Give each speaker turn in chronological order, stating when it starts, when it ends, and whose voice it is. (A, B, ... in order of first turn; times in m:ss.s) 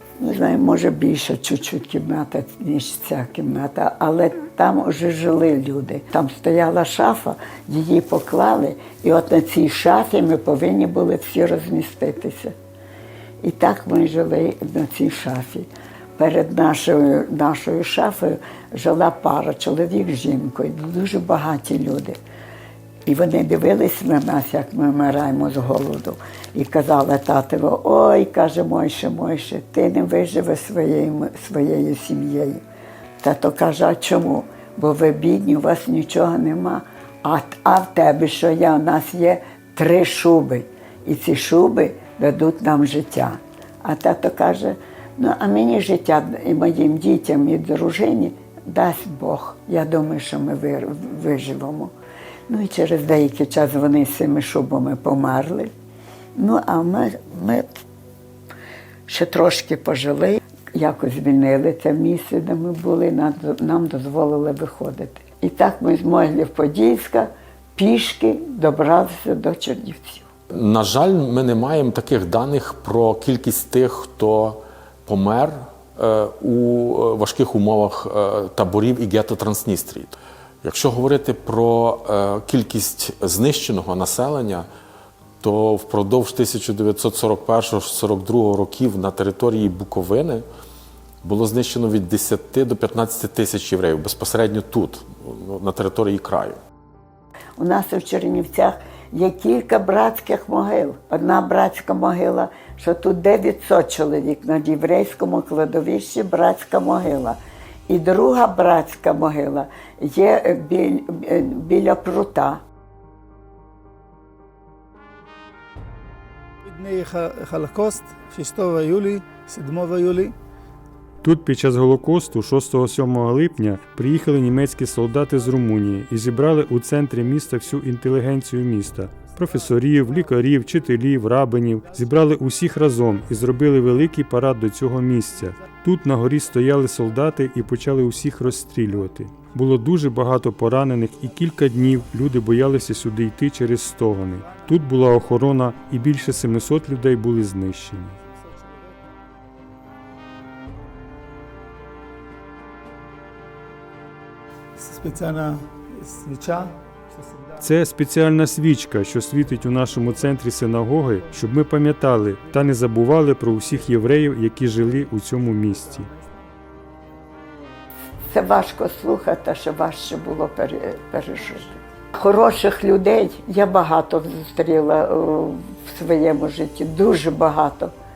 0:00.2-0:12.5 A
0:13.4-0:22.2 A
0:23.0-0:32.6 A
0:33.2-0:51.9 A
0:52.5-0:55.7 A
0:56.4-0:57.8 A
0:59.0-1:10.3 A
1:10.5-1:24.6 B
1:25.4-1:30.4 B
1:31.2-1:36.6 B
1:37.6-1:52.6 A
1:56.6-2:00.4 C
2:01.2-2:28.2 D
2:34.8-2:37.5 C
2:37.6-2:46.1 D
2:48.3-2:57.9 A